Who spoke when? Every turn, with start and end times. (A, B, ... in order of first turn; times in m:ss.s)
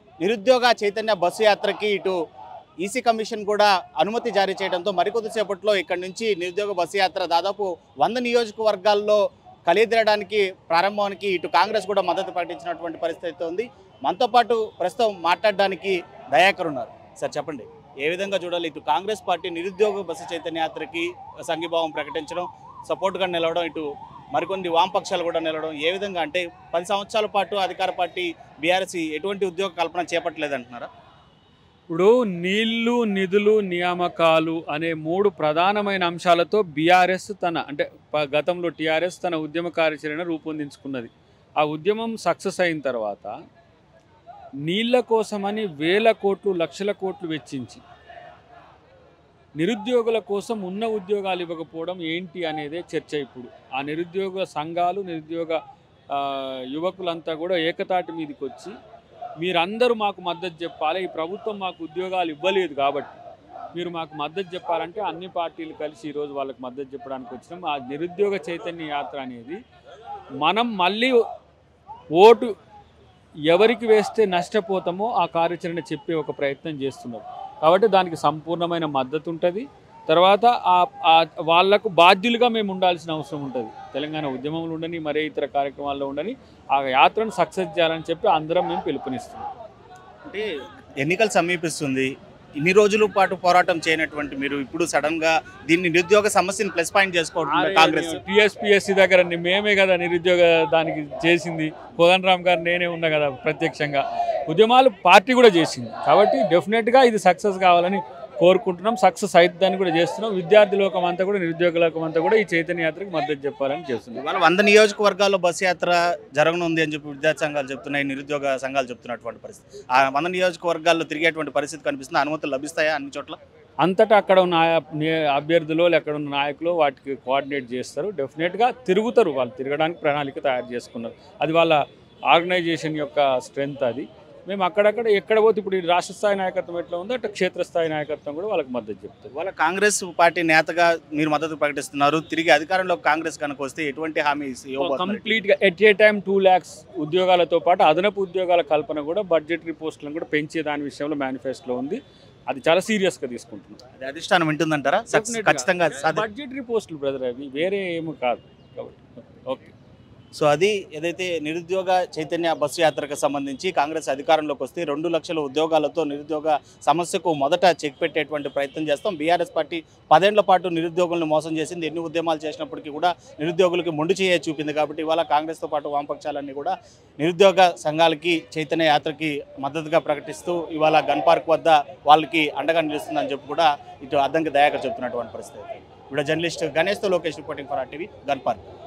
0:00.2-0:02.2 A
0:02.8-0:30.9 A
0:31.9-0:43.3 B
0:44.7-0:47.8 B
0:49.6-0:55.6 B
0:56.1-0:58.7 B
0:59.4-1:03.2 B
1:03.7-1:09.6 B
1:10.4-1:11.2 B
1:12.2-1:12.5 B
1:13.5-1:29.5 B
1:31.0-1:32.1 A
1:32.6-1:38.2 A
1:37.5-1:54.2 B
1:54.2-2:03.4 A
2:03.8-2:11.8 B
2:12.3-2:19.3 B
2:19.3-2:25.4 A
2:24.8-2:32.0 B
2:32.5-2:33.8 B
2:34.0-2:36.3 A
2:35.1-2:39.7 B
2:40.3-3:08.6 A